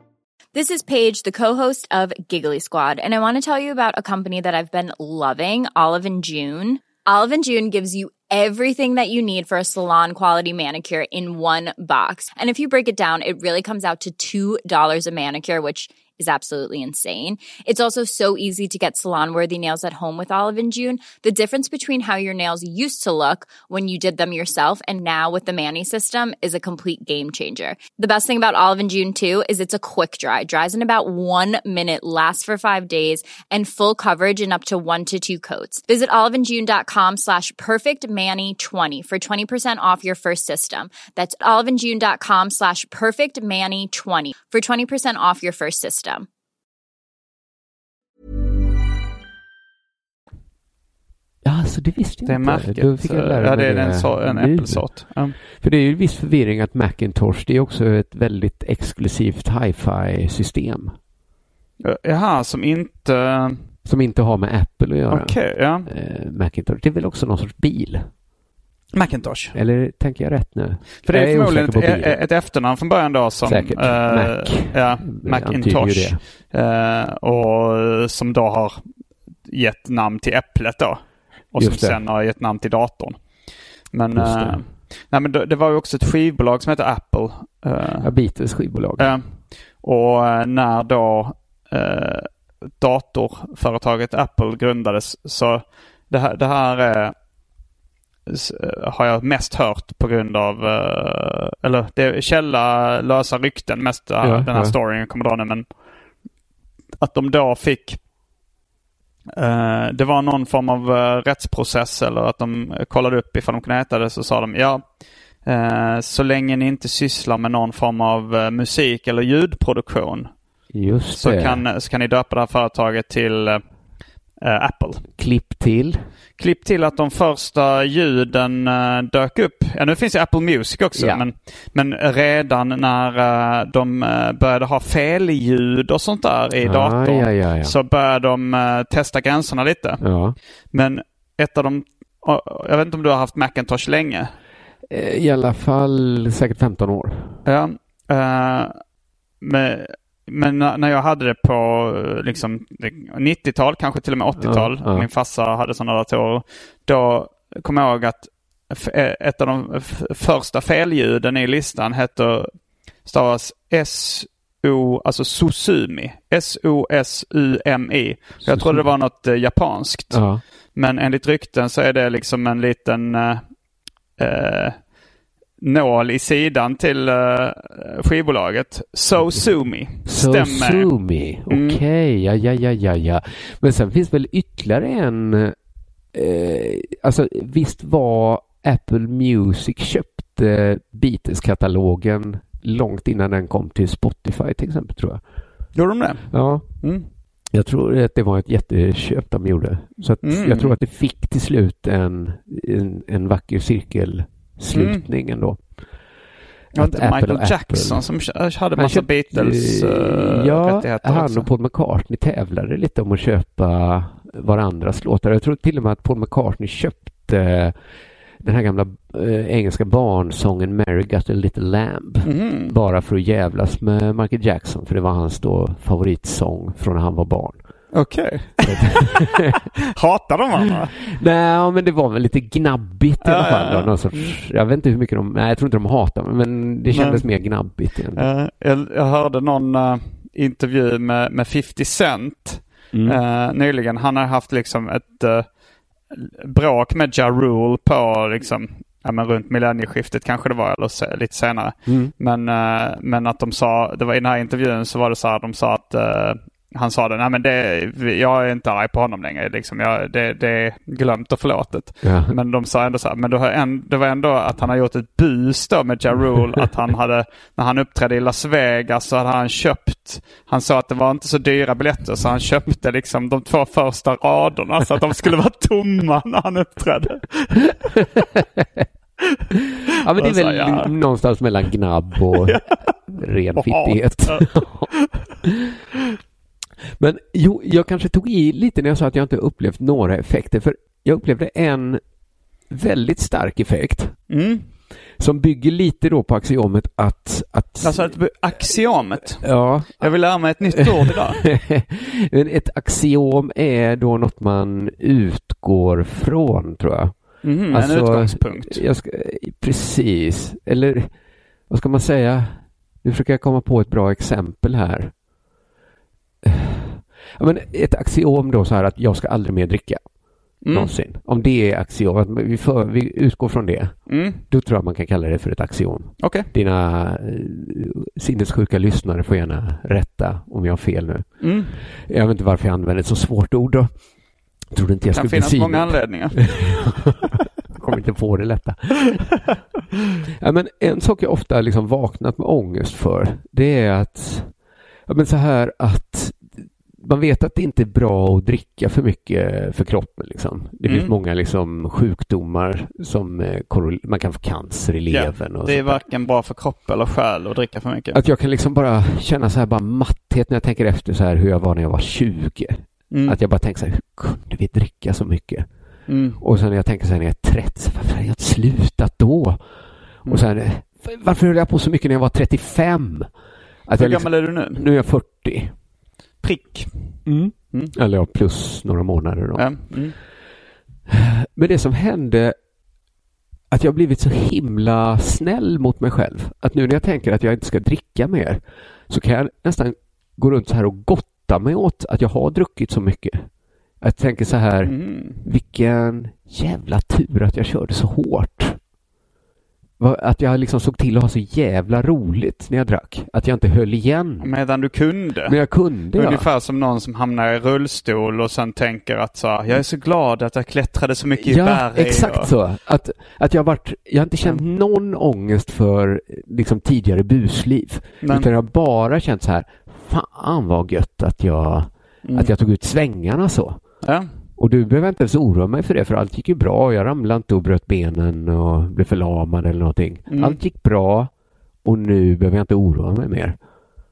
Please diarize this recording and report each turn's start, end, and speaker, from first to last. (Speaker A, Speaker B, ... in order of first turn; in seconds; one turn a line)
Speaker A: 0.5-46.3
Speaker B: 51.4-60.9
Speaker C: 52.2-55.4
Speaker C: 61.8-63.6
Speaker B: 63.8-68.1
Speaker C: 65.1-65.9
Speaker C: 68.9-69.5
Speaker B: 69.5-72.2
Speaker C: 71.0-78.8
Speaker B: 73.4-76.2
Speaker C: 79.5-81.0
Speaker C: 81.5-83.2
Speaker B: 81.6-82.0
Speaker C: 83.9-88.1
Speaker B: 84.1-84.6
Speaker B: 88.0-89.2
Speaker C: 89.0-89.2
Speaker C: 89.8-97.1
Speaker C: 98.3-105.6
Speaker B: 104.2-104.8
Speaker C: 107.0-108.0
Speaker C: 109.4-114.8
Speaker C: 115.4-120.3
Speaker B: 120.7-121.6
Speaker C: 121.1-123.6
Speaker C: 124.4-125.0
Speaker B: 125.2-126.0
Speaker C: 126.4-140.0
Speaker B: 130.9-131.2
Speaker B: 136.6-137.7
Speaker B: 140.0-140.4
Speaker C: 140.7-144.3
Speaker B: 144.9-147.4
Speaker C: 147.4-148.8
Speaker C: 149.4-162.5
Speaker B: 154.4-155.1
Speaker C: 163.0-170.2
Speaker B: 168.4-168.8
Speaker B: 170.1-170.4
Speaker C: 170.7-173.4
Speaker C: 174.2-174.8
Speaker C: 175.6-180.9
Speaker B: 179.1-179.5
Speaker B: 180.0-185.5
Speaker C: 181.5-181.8
Speaker B: 186.1-195.2
Speaker C: 195.8-197.1
Speaker B: 196.3-196.7
Speaker B: 197.5-205.6
Speaker C: 200.2-200.8
Speaker C: 204.7-205.0
Speaker B: 206.7-208.0
Speaker C: 206.7-211.5
Speaker B: 208.8-217.8
Speaker B: 218.4-227.6
Speaker C: 222.2-222.7
Speaker C: 227.9-230.9
Speaker B: 228.6-229.6
Speaker B: 231.0-238.3
Speaker C: 233.2-234.3
Speaker C: 236.9-237.2
Speaker C: 238.2-245.5
Speaker B: 242.9-243.2
Speaker C: 246.1-278.0
Speaker B: 251.8-252.1
Speaker B: 262.0-262.4
Speaker B: 278.2-278.8
Speaker B: 280.0-284.9
Speaker C: 280.1-280.9
Speaker C: 282.4-282.8
Speaker C: 283.6-285.2
Speaker B: 287.0-292.0
Speaker B: 292.7-294.2
Speaker C: 294.3-294.6
Speaker B: 295.2-298.1
Speaker C: 297.8-299.4
Speaker B: 299.4-311.1
Speaker C: 300.0-301.4
Speaker C: 307.4-308.8
Speaker B: 311.7-315.1
Speaker B: 316.4-320.0
Speaker C: 320.6-320.9
Speaker B: 320.7-333.9
Speaker C: 324.1-324.4
Speaker C: 326.2-326.5
Speaker C: 331.4-331.7
Speaker B: 334.7-339.2
Speaker C: 335.1-337.0
Speaker B: 340.4-344.5
Speaker B: 345.1-356.0
Speaker C: 350.9-351.1
Speaker C: 355.1-358.2
Speaker B: 358.1-365.7
Speaker C: 363.1-363.4
Speaker C: 366.1-366.4
Speaker B: 366.4-369.6
Speaker B: 370.2-373.3
Speaker B: 373.9-375.7
Speaker C: 374.0-374.8
Speaker C: 376.4-377.9
Speaker B: 377.2-380.0
Speaker C: 379.6-380.2
Speaker B: 381.1-382.6
Speaker B: 383.7-393.5
Speaker B: 394.0-398.8
Speaker C: 394.8-395.4
Speaker B: 400.0-404.5
Speaker C: 404.4-405.6
Speaker B: 405.4-406.5
Speaker C: 406.1-412.5
Speaker B: 411.4-423.8
Speaker C: 418.2-418.5
Speaker C: 422.2-422.5
Speaker B: 424.6-431.3
Speaker C: 430.3-430.6
Speaker B: 431.8-433.6